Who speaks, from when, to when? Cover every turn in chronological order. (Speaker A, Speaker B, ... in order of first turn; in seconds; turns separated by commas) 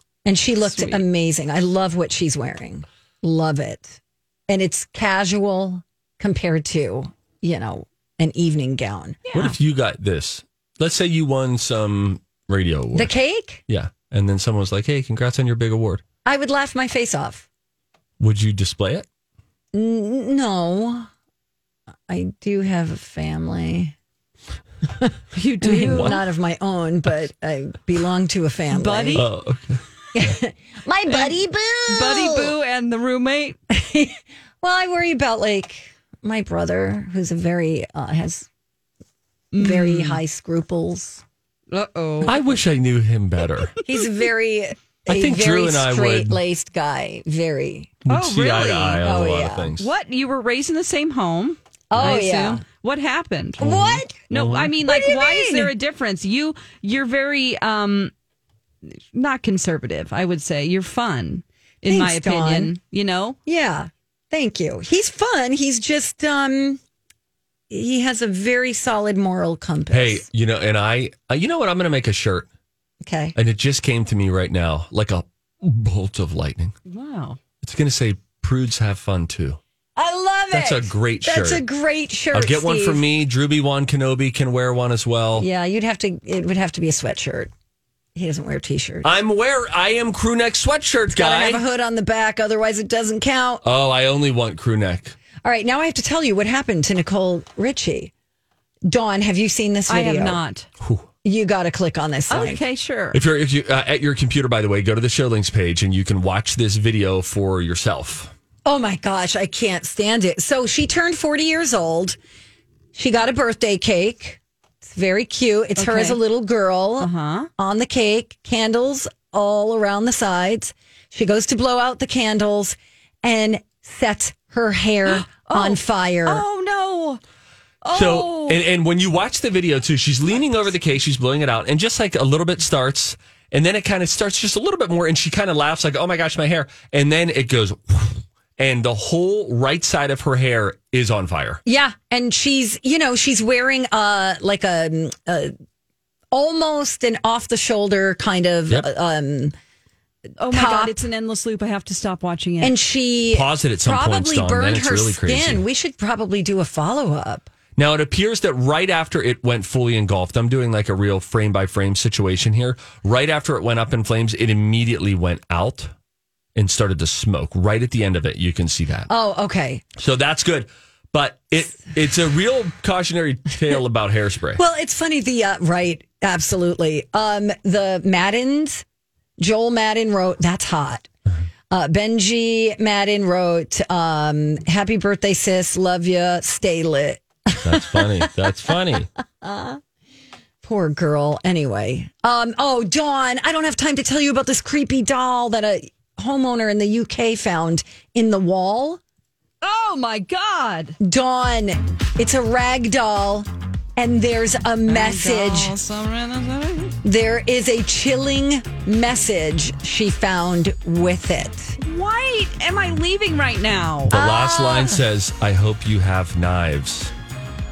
Speaker A: 0.2-9.2, Speaker B: 0.6-1.0, Speaker B: 9.3-9.6, Speaker C: 9.3-13.1, Speaker A: 12.9-13.6, Speaker C: 13.7-16.0, Speaker A: 16.2-17.5, Speaker C: 18.2-19.0, Speaker A: 19.7-21.1, Speaker A: 22.1-23.9, Speaker B: 25.3-26.2, Speaker A: 25.6-29.2, Speaker C: 25.8-26.2, Speaker B: 28.7-29.3, Speaker C: 29.1-29.8, Speaker A: 30.1-32.5, Speaker B: 31.9-33.6, Speaker A: 33.7-38.5, Speaker B: 39.5-40.2, Speaker A: 39.5-41.2, Speaker B: 41.7-42.4, Speaker C: 42.2-43.7, Speaker A: 43.8-48.0, Speaker C: 45.1-46.4, Speaker C: 48.0-49.9, Speaker B: 48.1-49.0, Speaker A: 49.0-49.7, Speaker B: 49.8-58.1, Speaker A: 51.9-52.6, Speaker C: 52.0-52.2, Speaker A: 53.6-54.3, Speaker C: 54.3-54.7, Speaker A: 54.8-55.7, Speaker B: 58.9-63.4, Speaker A: 61.9-62.7, Speaker A: 63.5-66.8, Speaker A: 67.7-70.2, Speaker C: 69.9-72.5, Speaker A: 73.0-73.3, Speaker C: 73.3-76.7, Speaker B: 76.9-77.4, Speaker C: 77.6-79.6, Speaker A: 80.0-83.0, Speaker C: 80.5-81.6, Speaker C: 82.3-85.5, Speaker A: 85.3-87.5, Speaker A: 88.1-89.1, Speaker C: 89.0-91.6, Speaker A: 91.1-93.6, Speaker C: 93.6-95.2, Speaker A: 95.4-98.1, Speaker A: 98.8-100.4, Speaker B: 99.9-100.7, Speaker C: 100.8-101.1, Speaker A: 101.2-102.6, Speaker B: 102.3-103.2, Speaker C: 103.1-108.3, Speaker A: 108.6-112.2, Speaker A: 112.9-126.4, Speaker B: 115.8-116.2, Speaker B: 117.0-117.5, Speaker B: 125.1-127.2, Speaker B: 127.8-128.6, Speaker C: 127.9-141.6, Speaker A: 141.6-145.5, Speaker A: 146.3-149.5, Speaker B: 150.4-152.8, Speaker A: 150.5-151.0, Speaker A: 152.6-157.5, Speaker C: 153.3-155.6, Speaker C: 157.8-165.9, Speaker C: 166.5-169.1, Speaker A: 169.1-169.8, Speaker C: 170.0-174.6, Speaker A: 174.6-178.8, Speaker A: 179.4-181.1, Speaker A: 181.7-188.3, Speaker C: 187.6-189.1, Speaker A: 189.4-189.8, Speaker A: 190.6-199.0, Speaker B: 199.6-201.0, Speaker A: 201.0-205.8, Speaker B: 204.9-207.0, Speaker A: 207.0-211.8, Speaker B: 211.8-214.1, Speaker C: 214.1-217.1, Speaker A: 214.1-215.0